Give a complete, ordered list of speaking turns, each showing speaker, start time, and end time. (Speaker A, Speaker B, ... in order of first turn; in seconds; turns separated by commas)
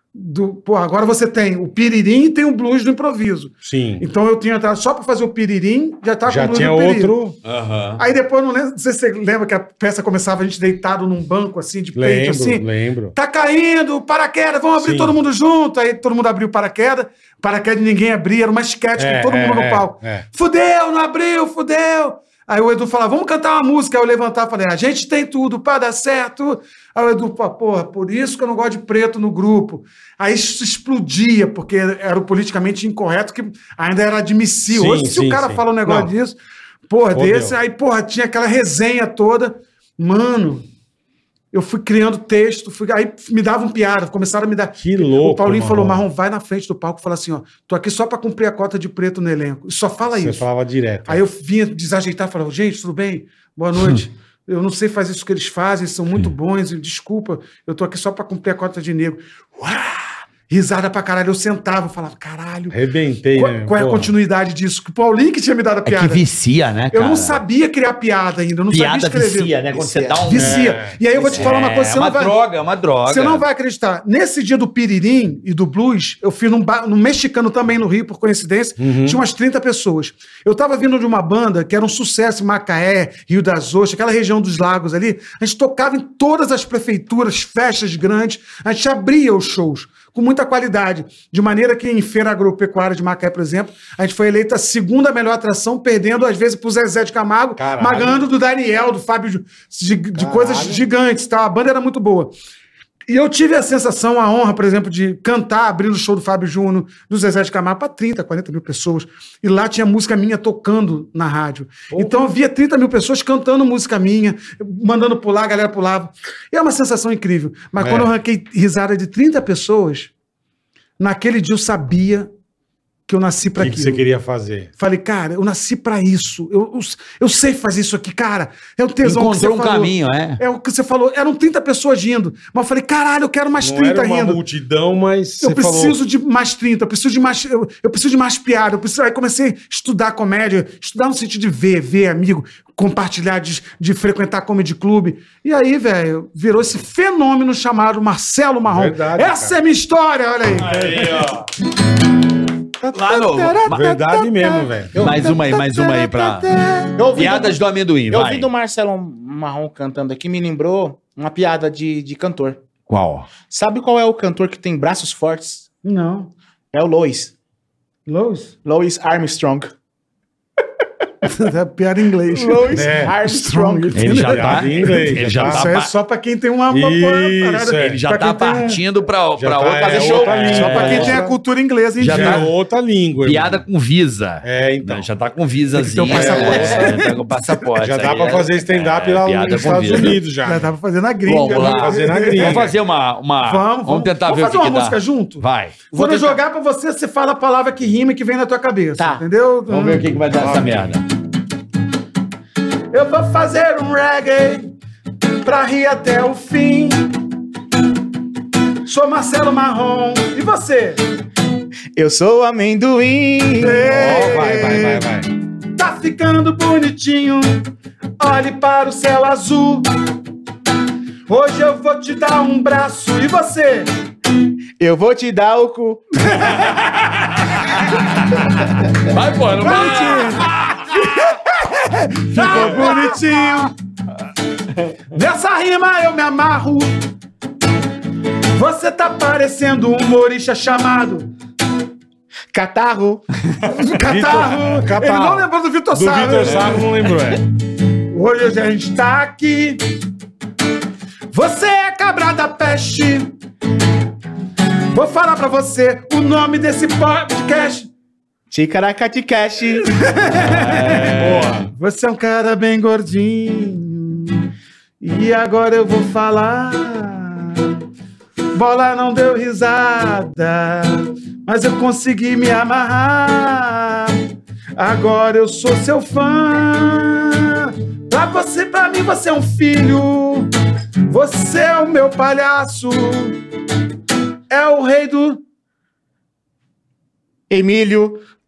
Speaker A: 0.1-7.2, Speaker B: 3.6-4.1, Speaker B: 6.2-7.4, Speaker C: 7.5-8.0, Speaker A: 8.0-36.4, Speaker B: 11.9-13.2, Speaker B: 14.8-15.2, Speaker B: 19.0-20.3, Speaker B: 34.7-36.1, Speaker A: 36.9-40.7, Speaker B: 37.1-37.6, Speaker A: 41.5-50.4, Speaker B: 44.8-46.0, Speaker B: 50.1-51.2, Speaker A: 51.1-62.8, Speaker C: 53.8-54.0, Speaker B: 62.7-64.1, Speaker A: 63.3-66.2, Speaker C: 65.9-67.4, Speaker A: 66.9-69.6, Speaker C: 68.7-70.8, Speaker D: 69.7-70.2, Speaker A: 70.3-72.4, Speaker B: 70.3-71.0, Speaker D: 71.1-71.5, Speaker C: 71.3-73.4, Speaker A: 73.1-102.3, Speaker B: 78.8-79.2, Speaker B: 97.6-98.2, Speaker B: 100.2-100.9, Speaker A: 103.1-120.1, Speaker B: 111.9-112.3, Speaker B: 117.8-118.1, Speaker A: 121.0-122.3, Speaker A: 123.1-124.0, Speaker B: 123.6-124.7, Speaker A: 124.8-134.4, Speaker C: 129.0-130.4, Speaker B: 133.6-136.0, Speaker A: 135.4-151.3, Speaker B: 148.7-149.6, Speaker C: 150.6-151.5, Speaker A: 152.8-157.1, Speaker C: 152.9-153.8, Speaker B: 153.7-155.3, Speaker C: 155.0-156.5, Speaker D: 157.0-162.6, Speaker C: 157.1-158.5, Speaker C: 162.9-163.3, Speaker D: 163.5-165.7, Speaker A: 165.8-166.3, Speaker D: 166.7-167.3, Speaker A: 168.1-168.5, Speaker D: 168.7-169.7, Speaker A: 171.2-178.8, Speaker D: 172.3-174.5, Speaker B: 172.7-173.2, Speaker C: 173.9-175.9, Speaker B: 174.1-175.7, Speaker B: 176.7-178.0, Speaker C: 177.8-181.2, Speaker B: 179.4-181.2, Speaker D: 179.7-181.4, Speaker A: 180.6-182.5, Speaker C: 182.0-182.5, Speaker B: 182.0-183.6, Speaker C: 183.2-190.2, Speaker B: 184.4-185.1, Speaker A: 185.8-187.2, Speaker B: 186.1-187.1, Speaker B: 187.8-190.7, Speaker A: 190.4-192.8, Speaker C: 191.2-195.8, Speaker B: 191.5-192.8, Speaker A: 193.4-200.1, Speaker D: 195.9-196.4, Speaker D: 199.0-199.2, Speaker C: 199.7-201.1, Speaker B: 200.1-201.0, Speaker A: 202.9-204.7, Speaker A: 205.4-207.1, Speaker A: 208.9-211.0, Speaker D: 211.9-213.9, Speaker A: 213.6-215.1, Speaker B: 213.8-215.3, Speaker A: 215.7-217.7, Speaker A: 218.2-219.9, Speaker A: 221.3-223.9, Speaker D: 224.8-226.3, Speaker A: 226.3-227.0, Speaker C: 226.5-231.1, Speaker A: 229.6-233.7, Speaker C: 232.4-232.7, Speaker A: 235.1-237.0, Speaker A: 238.6-241.3, Speaker D: 242.5-243.3, Speaker A: 243.7-246.9, Speaker B: 244.0-247.4, Speaker A: 248.1-249.8, Speaker A: 251.3-253.3, Speaker A: 254.9-257.9, Speaker D: 258.5-259.9, Speaker A: 259.9-261.1, Speaker C: 260.3-261.7, Speaker B: 260.9-261.7, Speaker A: 261.7-264.5, Speaker A: 265.0-267.7, Speaker A: 268.5-274.2, Speaker A: 274.8-280.5, Speaker A: 281.1-283.4, Speaker A: 284.5-285.4, Speaker D: 287.5-288.2